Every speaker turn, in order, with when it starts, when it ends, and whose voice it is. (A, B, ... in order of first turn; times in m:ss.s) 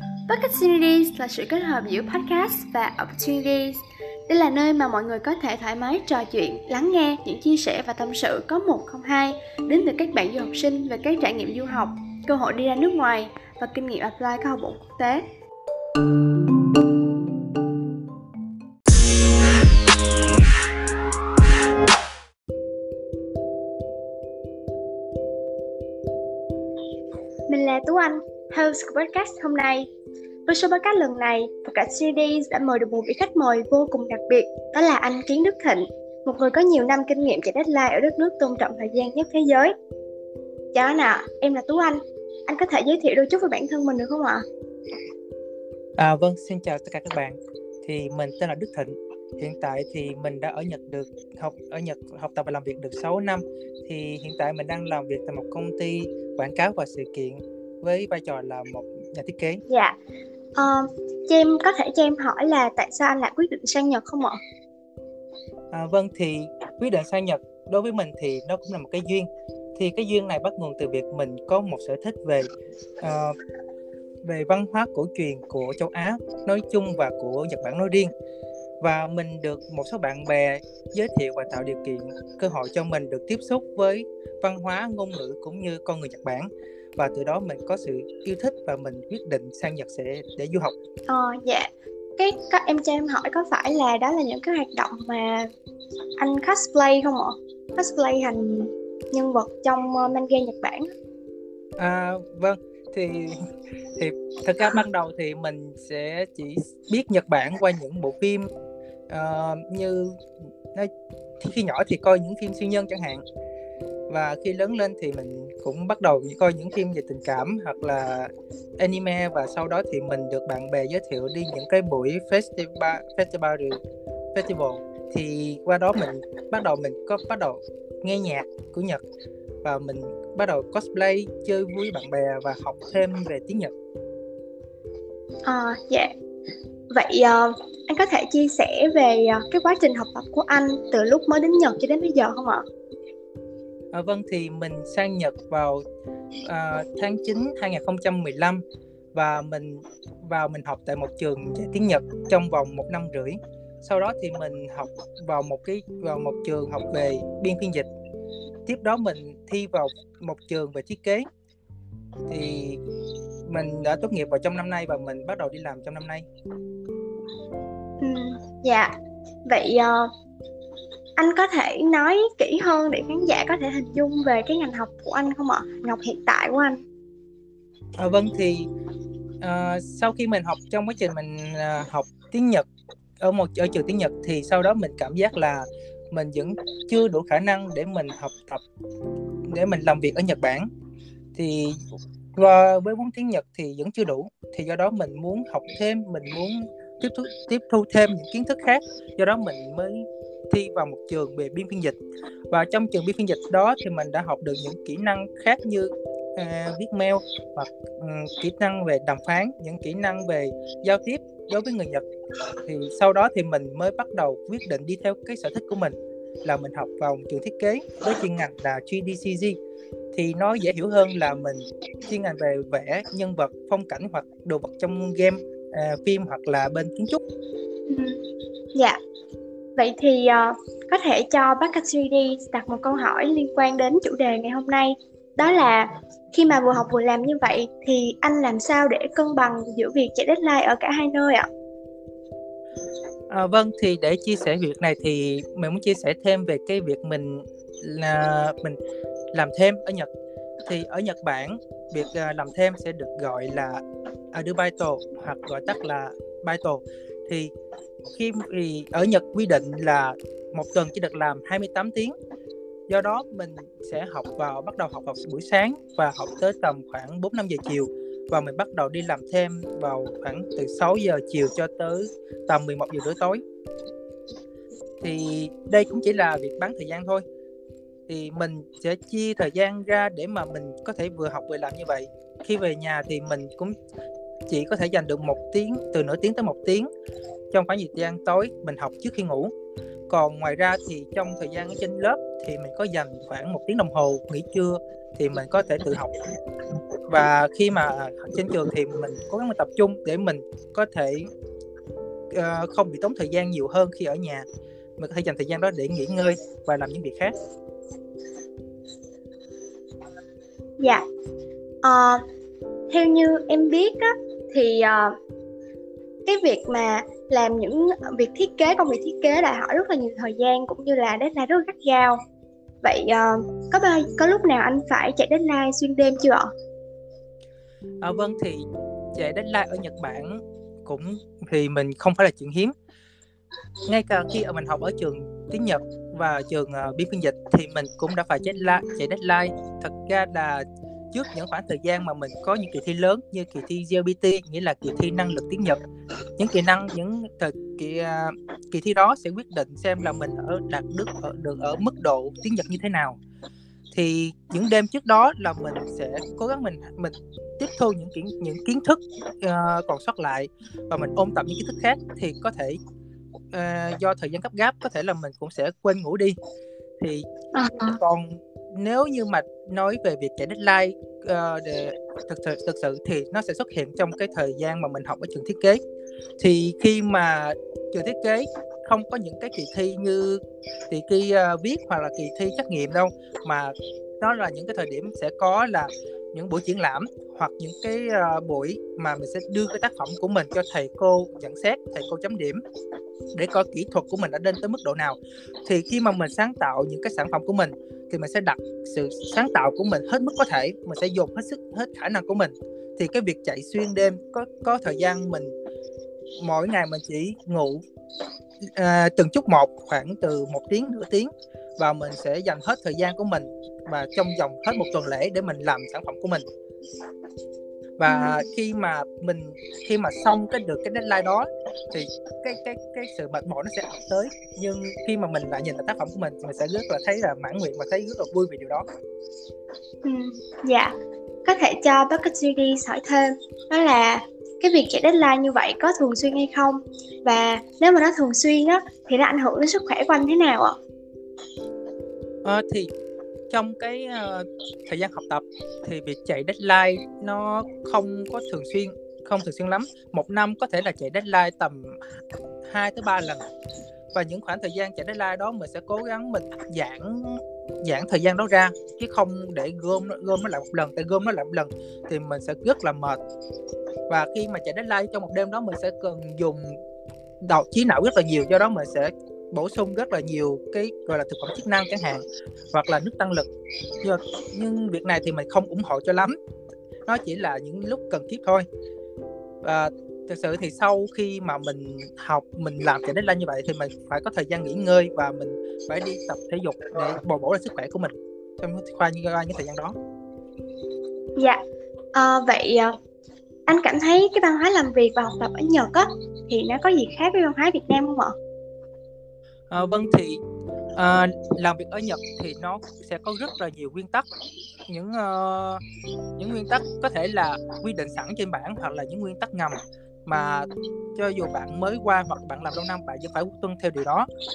0:00.3-0:15.2 A
0:27.5-0:29.9 A
0:30.5-0:39.7 A
0:40.7-0:44.4 A
0:46.0-0:59.6 B
0:59.7-0:59.9 A
1:00.6-1:04.4 A
1:05.7-1:12.5 B
1:13.0-1:13.3 B
1:14.2-1:18.1 B
1:18.8-1:30.7 B
1:31.1-1:35.5 A
1:36.2-1:40.9 A
1:41.8-1:43.4 B
1:44.0-1:48.5 B
1:49.1-1:50.2 B
1:50.7-1:53.2 B
1:54.1-2:03.8 B
2:04.3-2:09.0 B
2:09.6-2:13.7 B
2:15.4-2:16.1 A
2:16.9-2:22.6 A
2:23.9-2:25.8 B
2:26.4-2:28.6 B
2:29.1-2:37.9 B
2:38.7-2:41.3 B
2:42.3-2:42.8 B
2:43.5-2:46.2 B
2:48.0-2:48.9 A
2:49.5-2:50.1 A
2:51.2-2:56.8 A
2:58.0-2:58.7 B
2:59.4-3:02.7 B
3:03.2-3:08.6 B
3:09.5-3:10.7 B
3:11.3-3:11.8 B
3:12.4-3:22.0 B
3:22.5-3:32.0 B
3:32.6-3:39.6 B
3:40.1-3:47.2 B
3:47.9-3:48.2 A
3:49.8-4:01.5 A
4:03.3-4:08.8 B
4:09.3-4:10.1 B
4:10.6-4:17.5 B
4:18.0-4:22.1 B
4:22.9-4:33.4 B
4:35.0-4:37.2 B
4:38.1-4:43.8 B
4:44.5-4:46.9 B
4:47.5-4:49.5 B
4:50.1-4:56.1 B
4:57.1-5:01.3 B
5:02.3-5:04.4 B
5:05.0-5:07.3 B
5:10.8-5:11.0 A
5:11.8-5:12.2 A
5:12.9-5:15.1 A
5:16.2-5:22.2 A
5:22.8-5:26.5 A
5:28.0-5:32.7 B
5:33.9-5:45.8 B
5:46.4-5:53.2 B
5:53.9-6:02.8 B
6:03.5-6:06.4 B
6:07.0-6:07.2 B
6:07.5-6:08.0 A
6:08.0-6:15.8 B
6:16.4-6:32.6 B
6:33.3-6:45.5 B
6:46.4-6:47.8 B
6:48.6-6:56.4 B
6:58.0-7:08.8 B
6:58.0-6:58.4 A
7:10.0-7:10.9 A
7:11.4-7:20.8 A
7:22.4-7:22.9 B
7:23.5-7:32.0 B
7:32.6-7:33.4 B
7:34.1-7:43.2 B
7:44.1-7:46.8 B
7:47.4-7:53.5 B
7:54.0-7:56.4 B
7:57.1-7:58.7 B
7:59.6-8:09.9 B
8:12.1-8:12.9 A
8:13.6-8:18.3 A
8:19.7-8:20.4 B
8:20.9-8:24.3 B
8:24.9-8:25.8 B
8:26.4-8:34.3 B